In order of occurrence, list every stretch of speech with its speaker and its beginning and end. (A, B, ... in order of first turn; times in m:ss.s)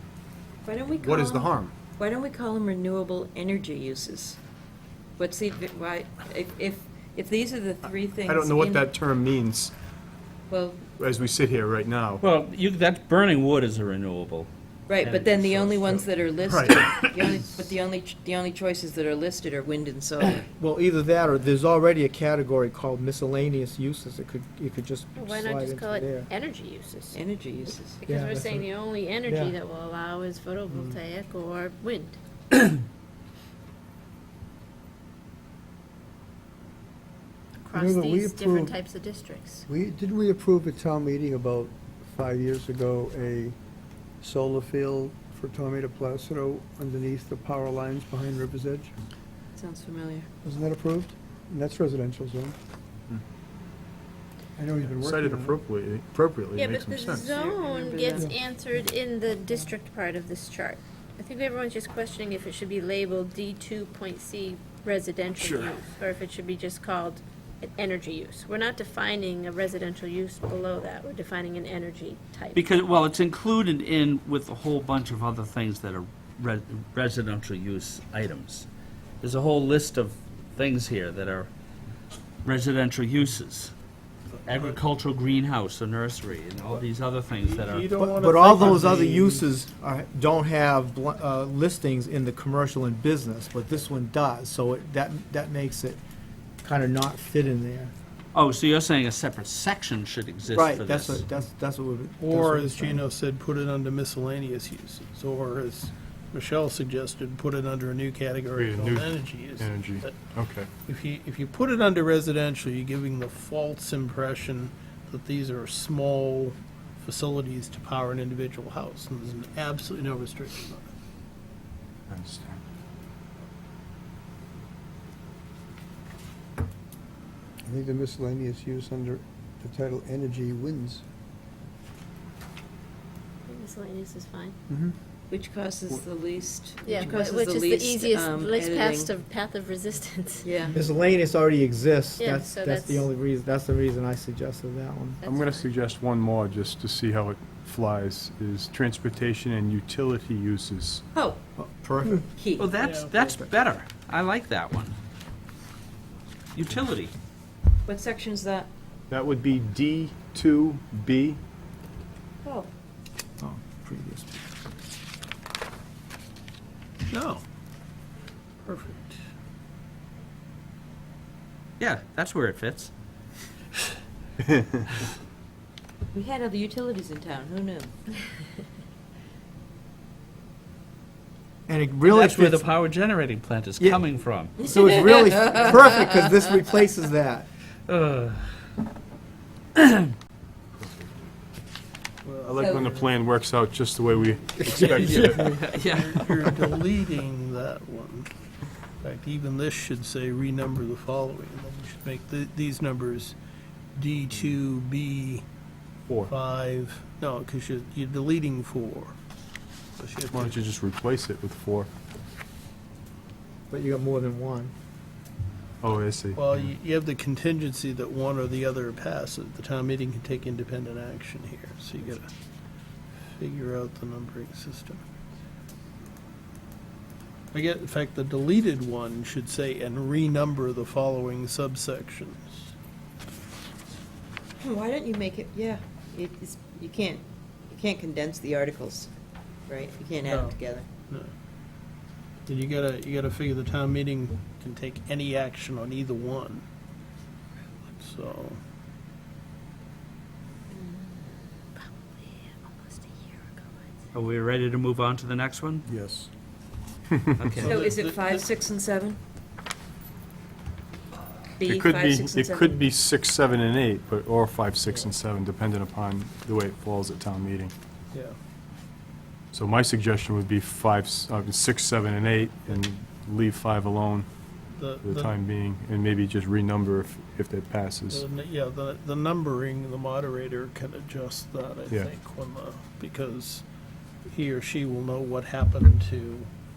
0:00.6-0:04.4 A
0:01.0-0:01.7 B
0:05.2-0:08.9 A
0:08.2-0:09.7 B
0:10.5-0:10.9 A
0:11.0-0:12.2 B
0:12.2-0:14.5 C
0:14.9-0:20.5 A
0:15.0-0:15.8 C
0:15.9-0:16.8 B
0:20.5-0:26.3 D
0:25.1-0:27.2 E
0:27.1-0:28.0 A
0:28.0-0:32.2 E
0:28.0-0:28.7 D
0:29.2-0:29.6 D
0:37.6-0:39.6 E
0:37.7-0:38.8 F
0:39.7-0:43.6 F
0:44.2-0:48.9 F
0:49.5-0:50.3 A
0:50.4-0:52.6 F
0:54.6-0:55.6 F
0:54.8-0:57.3 B
0:56.5-1:12.7 E
0:57.1-0:58.3 A
1:05.4-1:05.8 C
1:12.5-1:18.7 C
1:19.2-1:21.5 C
1:22.4-1:23.7 C
1:24.4-1:27.9 C
1:24.5-1:24.8 G
1:27.4-1:29.5 G
1:28.0-1:36.0 D
1:36.6-1:37.9 D
1:38.3-1:41.2 C
1:40.5-1:43.0 D
1:42.2-1:50.2 G
1:48.6-1:50.7 B
1:50.8-2:00.9 G
2:02.1-2:02.6 B
2:07.6-2:11.0 F
2:13.4-2:14.5 E
2:14.7-2:14.9 F
2:15.3-2:19.1 A
2:16.8-2:20.7 E
2:20.4-2:20.7 A
2:20.7-2:25.2 D
2:22.2-2:23.1 E
2:25.2-2:25.7 E
2:25.2-2:31.0 B
2:31.1-2:31.4 A
2:31.6-2:32.3 D
2:32.3-2:32.7 A
2:32.6-2:35.0 C
2:32.8-2:33.4 G
2:36.5-2:37.1 C
2:37.8-2:38.7 A
2:39.1-2:41.4 B
2:42.4-2:42.7 A
2:43.4-2:44.4 D
2:47.1-2:47.4 G
2:48.6-2:49.2 G
2:51.8-2:52.9 C
2:56.1-2:57.9 A
3:01.7-3:02.7 D
3:02.0-3:04.5 C
3:03.8-3:04.0 D
3:04.6-3:07.5 D
3:04.6-3:06.0 A
3:07.9-3:08.5 C
3:09.8-3:10.1 C
3:10.8-3:11.2 B
3:12.2-3:13.1 G
3:12.4-3:15.4 B
3:14.3-3:14.6 G
3:14.6-3:16.7 C
3:15.4-3:18.3 G
3:19.0-3:23.4 G
3:24.0-3:25.4 G
3:26.1-3:26.3 B
3:26.3-3:29.2 G
3:30.0-3:30.6 G
3:30.3-3:31.9 B
3:33.7-3:34.7 D
3:35.8-3:36.7 B
3:36.3-3:42.3 G
3:43.4-3:45.0 G
3:47.5-3:52.7 G
3:54.6-3:59.1 A
3:59.7-4:00.9 A
4:00.3-4:00.5 G
4:02.4-4:06.6 G
4:07.8-4:08.6 G
4:11.8-4:13.6 E
4:14.1-4:15.8 C
4:15.9-4:16.3 F
4:17.3-4:17.8 C
4:17.5-4:18.4 G
4:17.7-4:19.2 A
4:21.6-4:22.8 A
4:21.6-4:27.7 B
4:24.8-4:25.1 G
4:29.5-4:34.3 B
4:34.7-4:35.4 G
4:35.0-4:38.2 B
4:38.1-4:43.6 G
4:44.3-4:46.5 G